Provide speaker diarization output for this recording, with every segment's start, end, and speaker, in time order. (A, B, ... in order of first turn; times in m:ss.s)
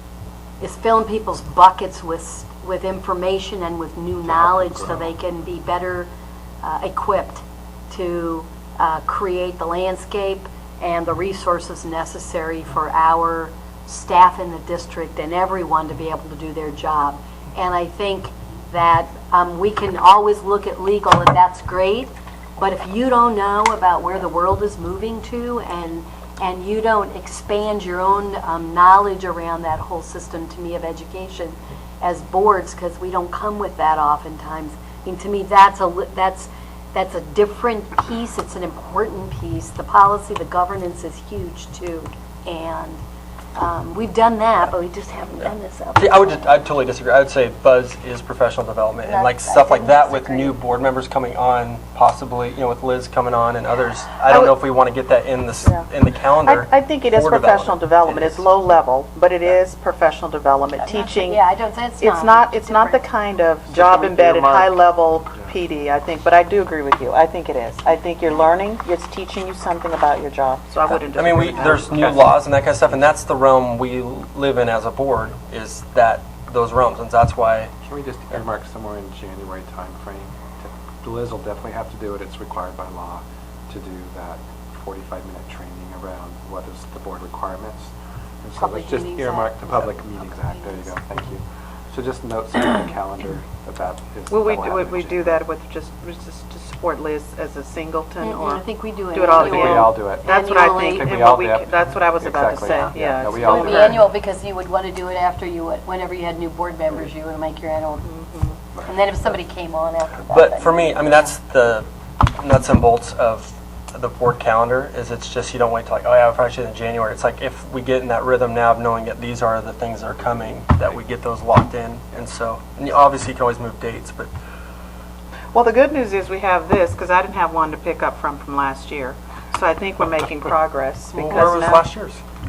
0:00.6-0:06.1 A
0:04.3-0:05.1 B
0:06.6-0:43.0 A
0:43.5-0:46.6 A
0:45.4-0:58.4 C
0:49.0-0:50.6 A
0:54.3-0:54.6 D
0:55.6-0:55.9 D
0:56.4-1:01.4 D
1:00.8-1:03.0 A
1:02.0-1:12.1 D
1:03.7-1:04.7 B
1:10.9-1:17.7 C
1:17.8-1:35.4 B
1:28.6-1:31.0 A
1:34.3-1:44.1 D
1:38.2-1:41.2 A
1:39.4-1:44.1 B
1:42.6-1:48.1 A
1:48.0-1:48.6 D
1:48.7-1:49.0 B
1:48.8-1:51.3 A
1:50.3-2:04.3 C
2:05.5-2:11.9 D
2:11.2-2:12.2 C
2:11.2-2:11.5 A